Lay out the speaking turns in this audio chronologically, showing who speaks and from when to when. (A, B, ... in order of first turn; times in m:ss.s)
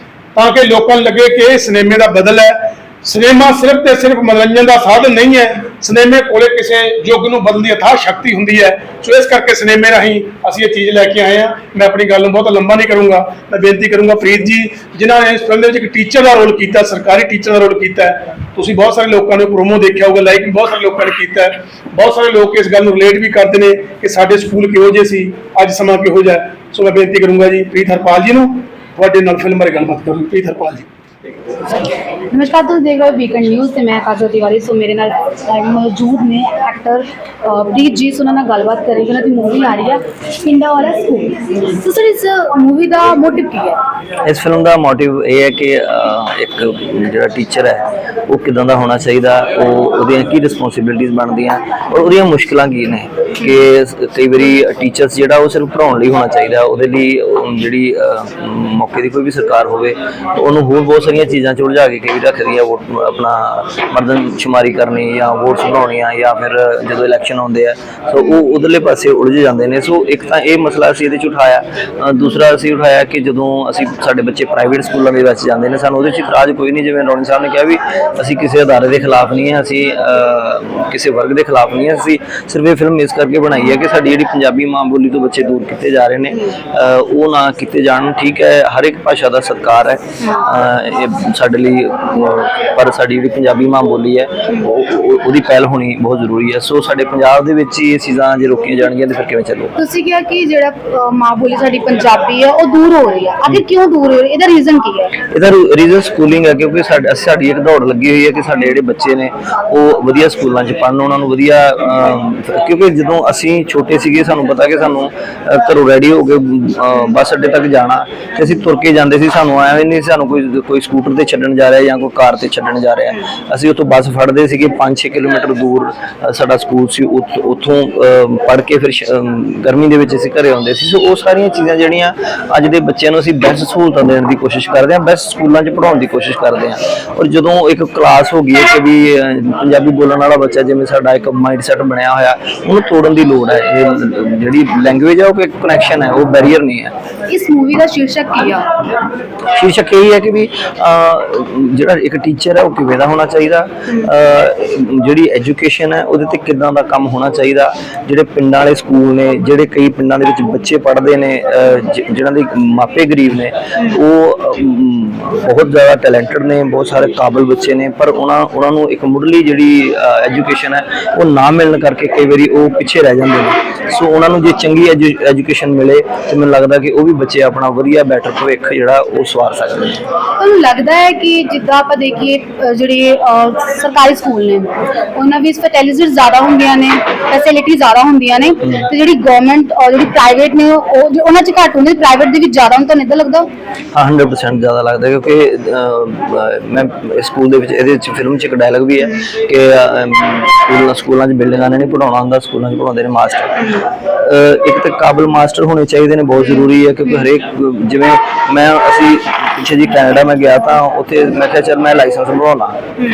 0:00.4-0:30.9 A
0:32.3-0:43.8 B
0:44.2-1:39.7 C
1:39.8-1:45.2 B
1:45.3-2:26.9 C
2:27.3-2:28.6 B
2:29.5-3:00.0 C
3:00.4-3:13.5 B
3:13.9-3:32.8 C